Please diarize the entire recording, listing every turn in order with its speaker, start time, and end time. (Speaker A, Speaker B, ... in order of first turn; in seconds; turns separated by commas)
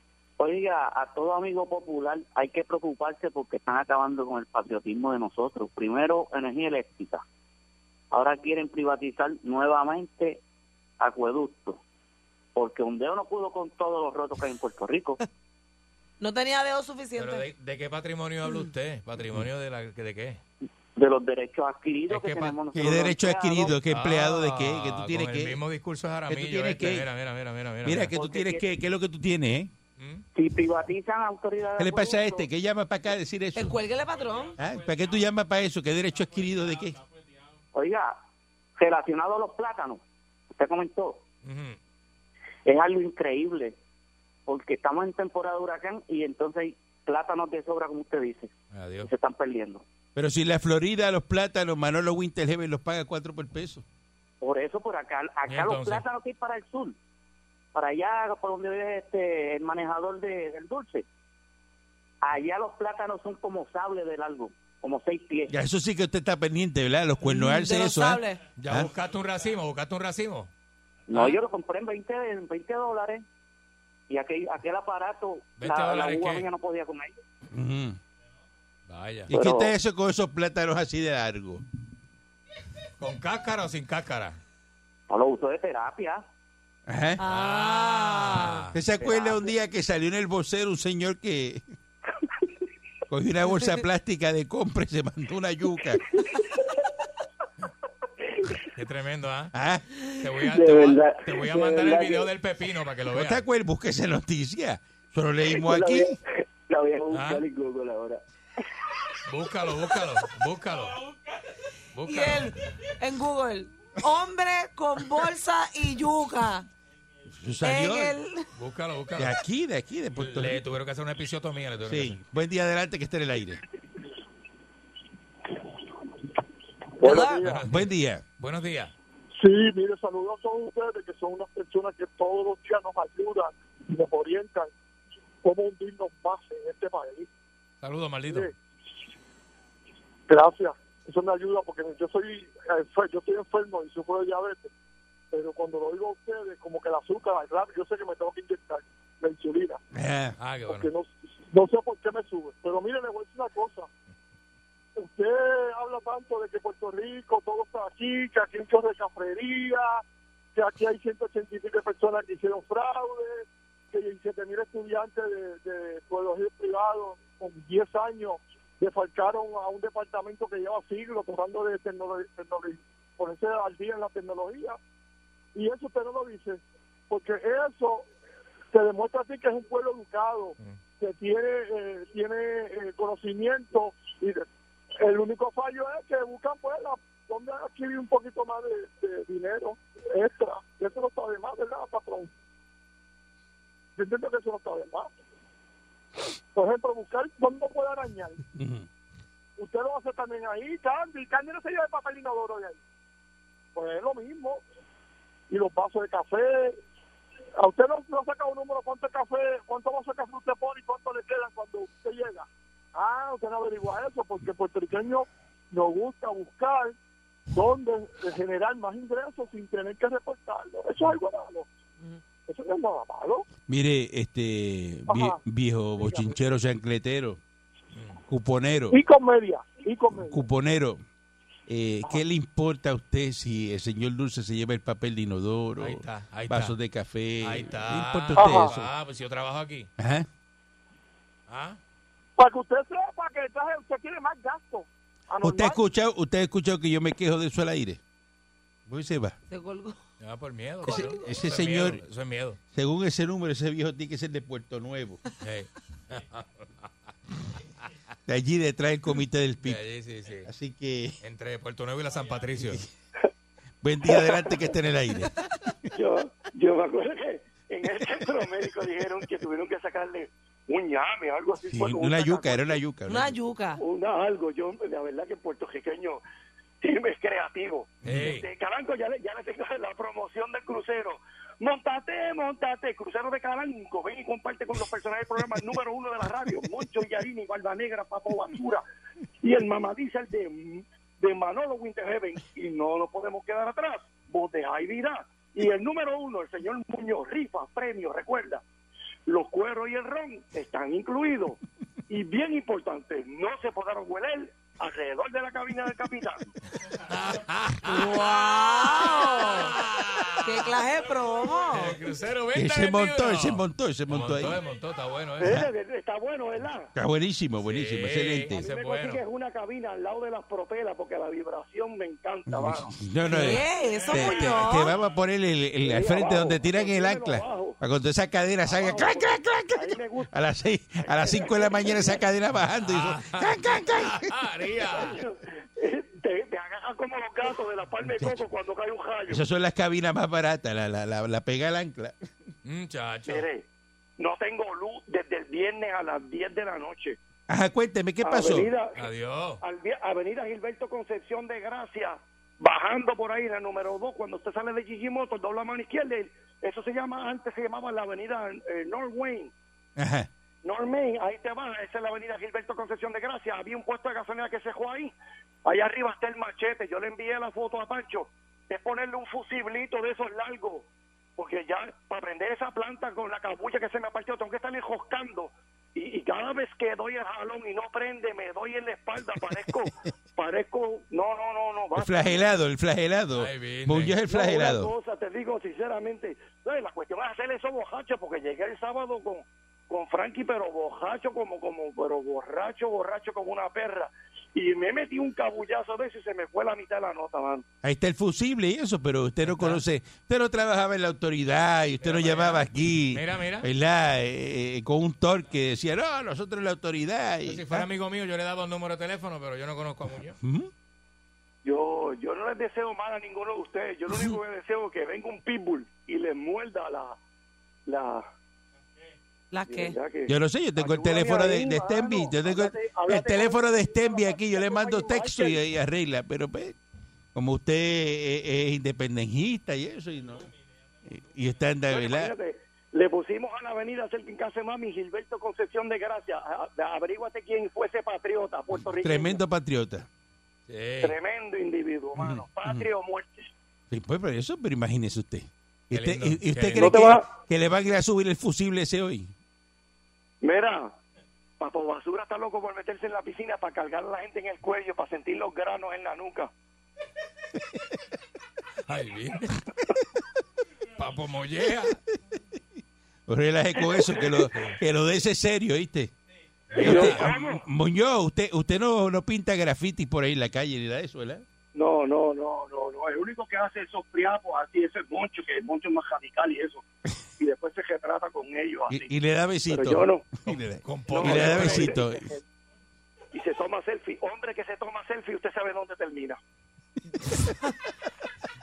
Speaker A: 0.4-7.2, Speaker A: 8.1-10.4, Speaker A: 11.0-11.8, Speaker A: 12.5-15.2, Speaker B: 16.2-17.4, Speaker C: 17.2-20.4, Speaker A: 20.9-23.8, Speaker C: 22.1-22.6, Speaker D: 22.7-25.6, Speaker C: 23.9-28.1, Speaker D: 26.3-27.1, Speaker D: 27.8-29.7, Speaker A: 28.1-28.6, Speaker C: 30.0-30.2, Speaker A: 30.3-32.5, Speaker D: 31.8-33.8, Speaker B: 33.5-34.6, Speaker D: 34.6-37.0, Speaker A: 37.7-38.1, Speaker A: 38.8-40.0, Speaker A: 40.5-41.2, Speaker C: 41.4-41.8, Speaker A: 42.6-43.8, Speaker A: 44.5-49.8, Speaker C: 48.7-49.1, Speaker D: 50.1-53.8, Speaker A: 54.4-57.0, Speaker C: 55.5-56.0, Speaker A: 57.7-61.0, Speaker A: 62.2-65.5, Speaker D: 65.5-68.9, Speaker B: 67.2-68.4, Speaker C: 68.6-70.5, Speaker A: 71.1-73.2, Speaker C: 71.1-71.4, Speaker A: 74.1-77.2, Speaker C: 75.6-76.5, Speaker D: 77.5-78.0, Speaker C: 78.9-79.3, Speaker D: 79.3-81.6, Speaker A: 79.3-79.7, Speaker C: 83.0-84.4, Speaker A: 85.1-86.2, Speaker D: 86.9-87.2, Speaker B: 87.2-88.6, Speaker C: 87.2-88.8, Speaker D: 88.7-91.6, Speaker A: 89.0-89.4, Speaker D: 93.1-96.0, Speaker C: 98.7-99.5, Speaker D: 99.5-99.8, Speaker C: 100.2-103.4, Speaker A: 100.5-102.2, Speaker D: 103.1-106.2, Speaker A: 106.7-108.2, Speaker C: 107.1-107.4, Speaker C: 109.2-111.0, Speaker C: 111.9-112.5, Speaker B: 112.0-116.7, Speaker D: 117.3-118.1, Speaker B: 117.6-118.5, Speaker C: 118.5-119.3, Speaker D: 119.2-120.6, Speaker C: 120.2-122.2, Speaker D: 121.8-123.6, Speaker E: 127.0-127.7, Speaker B: 127.0-127.4, Speaker C: 127.4-127.9, Speaker D: 127.7-128.2, Speaker C: 128.4-128.9, Speaker E: 129.4-134.7, Speaker E: 135.4-137.3, Speaker C: 137.8-138.5, Speaker E: 138.3-138.5, Speaker E: 140.3-144.7, Speaker E: 145.3-149.8, Speaker D: 149.9-150.4, Speaker C: 150.4-150.9, Speaker E: 150.7-153.9, Speaker E: 155.0-160.0, Speaker E: 160.5-174.8, Speaker E: 175.5-178.1, Speaker E: 178.7-184.5, Speaker E: 185.0-192.3, Speaker E: 194.0-195.1, Speaker E: 196.5-198.4, Speaker D: 198.5-198.9, Speaker E: 199.6-202.8, Speaker E: 203.7-204.6, Speaker E: 205.5-206.8, Speaker E: 207.6-216.9, Speaker E: 217.5-221.7, Speaker E: 222.4-223.4, Speaker D: 223.7-227.4, Speaker E: 225.1-225.4, Speaker E: 225.9-226.4, Speaker C: 227.9-228.2, Speaker D: 228.3-229.0, Speaker E: 228.9-230.4, Speaker D: 230.1-231.0, Speaker D: 231.7-238.9, Speaker C: 235.8-236.7, Speaker C: 237.4-239.9, Speaker E: 238.3-238.7, Speaker D: 240.0-240.3, Speaker C: 241.5-241.8, Speaker E: 242.4-245.8, Speaker D: 245.4-248.0, Speaker D: 248.9-249.4, Speaker B: 249.5-250.0, Speaker C: 250.2-252.6, Speaker D: 250.9-252.0, Speaker D: 252.7-255.2, Speaker C: 255.4-256.9, Speaker D: 258.3-259.8, Speaker C: 259.6-260.5, Speaker D: 260.4-261.2, Speaker C: 261.2-262.8, Speaker D: 263.8-265.9, Speaker F: 264.1-264.6, Speaker F: 265.9-272.8, Speaker D: 271.6-273.3, Speaker B: 273.1-273.8, Speaker F: 273.8-276.2, Speaker F: 276.8-288.8, Speaker C: 278.0-278.4, Speaker D: 278.1-278.3, Speaker F: 289.4-298.6, Speaker F: 299.2-306.4, Speaker C: 307.1-308.2, Speaker B: 307.8-309.7, Speaker C: 309.4-310.5, Speaker B: 310.4-312.0, Speaker C: 311.7-315.6, Speaker D: 312.5-314.6, Speaker F: 315.4-316.9, Speaker D: 315.4-315.7, Speaker D: 316.9-318.7, Speaker C: 317.6-319.2, Speaker F: 318.5-322.9, Speaker D: 322.5-335.1, Speaker B: 323.3-324.9, Speaker F: 325.9-327.8, Speaker F: 328.6-330.3, Speaker F: 331.0-332.2, Speaker C: 332.8-335.2, Speaker F: 335.0-339.4, Speaker D: 338.0-338.5, Speaker D: 339.3-342.3, Speaker C: 342.6-343.4, Speaker F: 343.3-343.6, Speaker F: 344.2-347.2, Speaker D: 347.5-348.7, Speaker F: 348.2-349.0, Speaker C: 348.9-349.6, Speaker F: 349.6-359.5, Speaker D: 360.0-360.3, Speaker F: 360.6-365.1, Speaker F: 365.6-382.4, Speaker D: 381.9-384.9, Speaker C: 383.3-384.2, Speaker F: 384.2-397.6, Speaker D: 397.8-407.9, Speaker C: 399.4-399.8, Speaker C: 402.0-403.7, Speaker C: 407.4-410.4, Speaker D: 410.4-410.7, Speaker F: 411.6-417.2, Speaker D: 414.1-414.4, Speaker F: 417.9-418.2, Speaker B: 419.5-420.0, Speaker F: 419.7-425.6, Speaker D: 420.3-426.8, Speaker D: 427.3-430.5, Speaker D: 431.0-432.3, Speaker F: 431.9-439.4, Speaker D: 438.8-440.1, Speaker C: 440.7-441.2, Speaker F: 441.0-443.5, Speaker D: 442.1-442.9, Speaker D: 443.9-449.3, Speaker C: 445.9-447.1, Speaker F: 446.8-447.2, Speaker F: 450.4-450.9, Speaker F: 451.6-456.5, Speaker C: 458.9-459.6, Speaker C: 461.0-462.0, Speaker D: 463.3-466.1, Speaker C: 466.7-467.3, Speaker D: 466.7-471.4, Speaker F: 466.8-467.6, Speaker F: 471.7-476.8, Speaker F: 477.4-479.1, Speaker D: 478.9-482.4, Speaker F: 479.7-480.3, Speaker C: 480.4-482.0, Speaker F: 481.1-482.0, Speaker F: 483.3-486.4